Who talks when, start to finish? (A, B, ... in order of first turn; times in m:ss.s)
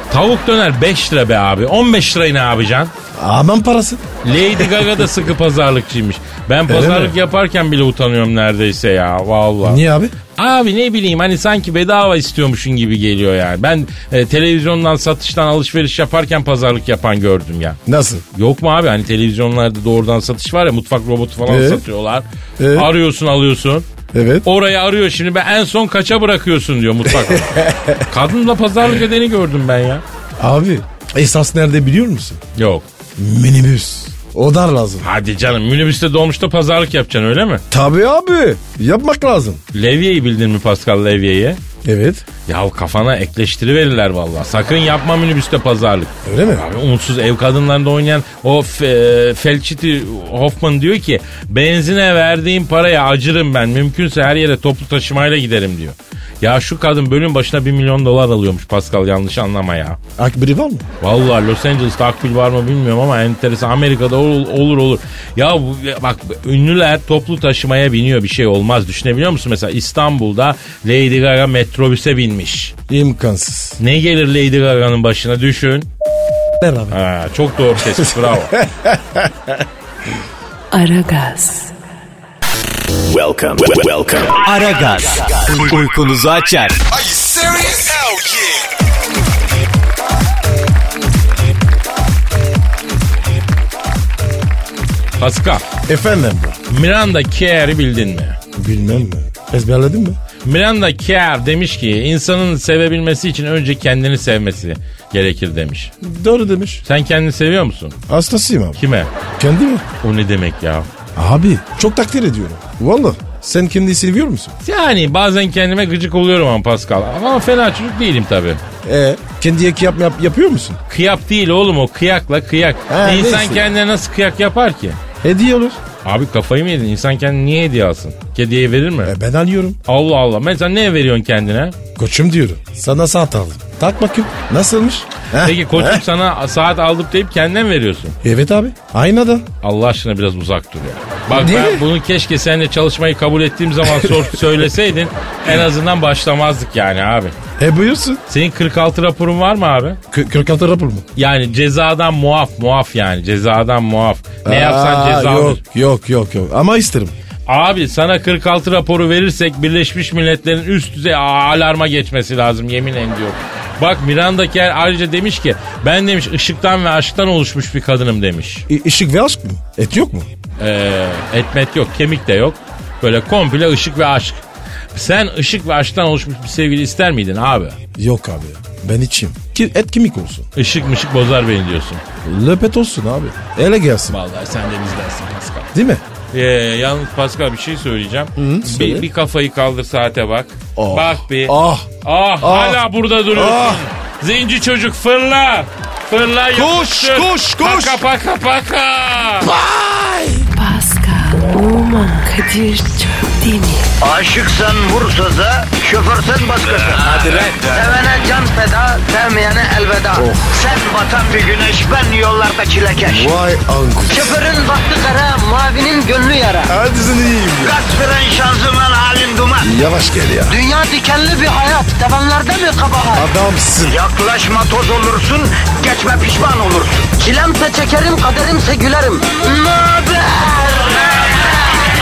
0:00.1-0:02.9 A
0:03.1-0:04.7 B
0:04.2-0:09.8 A
0:06.7-0:07.1 B
0:09.6-0:10.1 B
0:10.4-0:17.8 A
0:17.8-0:18.2 B
0:18.3-0:23.9 A
0:21.5-0:21.8 B
0:22.6-0:22.9 B
0:24.1-0:24.4 B
0:24.4-0:30.0 A
0:27.1-0:28.1 B
0:30.4-0:32.4 B
0:32.6-0:32.8 A
0:33.2-0:35.1 B
0:35.0-0:37.6 A
0:37.7-0:39.6 B
0:39.7-0:41.6 A
0:41.8-0:42.2 B
0:42.5-1:00.0 A
0:46.2-0:46.6 B
1:00.2-1:00.8 B
1:01.0-1:12.7 A
1:12.9-1:13.8 B
1:13.8-1:15.9 A
1:16.6-1:17.0 B
1:16.9-1:18.6 A
1:17.8-1:19.6 B
1:20.7-1:21.7 C
1:23.0-1:26.8 D
1:26.9-1:28.6 B
1:35.2-1:35.6 A
1:35.8-1:36.6 B
1:36.7-1:38.4 A
1:38.5-1:40.2 B
1:40.4-1:45.9 A
1:46.0-1:46.8 B
1:46.8-1:48.0 A
1:48.1-1:48.8 B
1:48.8-1:49.1 A
1:49.4-1:49.8 B
1:50.0-1:50.9 A
1:51.1-1:54.6 B
1:54.6-1:58.6 A
1:58.8-2:00.8 B
2:00.9-2:05.0 A
2:02.9-2:03.7 B
2:05.2-2:05.8 B
2:06.0-2:09.1 A
2:09.0-2:09.8 B
2:09.8-2:11.8 A
2:12.0-2:16.0 B
2:15.4-2:18.2 A
2:18.2-2:19.5 B
2:19.6-2:27.3 A
2:21.3-2:21.9 B
2:27.6-2:28.2 B
2:28.3-2:30.0 A
2:30.1-2:31.0 B
2:31.2-2:35.6 A
2:34.4-2:37.1 B
2:37.5-2:48.6 A
2:48.7-2:50.3 B
2:50.6-2:54.4 A
2:54.9-2:57.8 A
2:58.0-3:00.5 B
3:00.5-3:02.0 A
3:02.2-3:04.2 B
3:04.1-3:05.7 A
3:05.7-3:06.0 B
3:06.3-3:19.5 A
3:08.4-3:09.1 B
3:10.8-3:11.9 B
3:12.4-3:13.8 B
3:16.5-3:18.0 B
3:19.4-3:20.5 B
3:20.5-3:23.9 C
3:24.0-3:33.3 E
3:27.0-3:27.6 B
3:30.1-3:30.5 B
3:33.0-3:34.4 B
3:34.1-3:36.7 E
3:36.7-3:37.8 B
3:37.6-3:39.7 E
3:39.6-3:40.6 B
3:40.5-3:43.3 E
3:43.1-3:44.0 B
3:43.8-3:51.4 E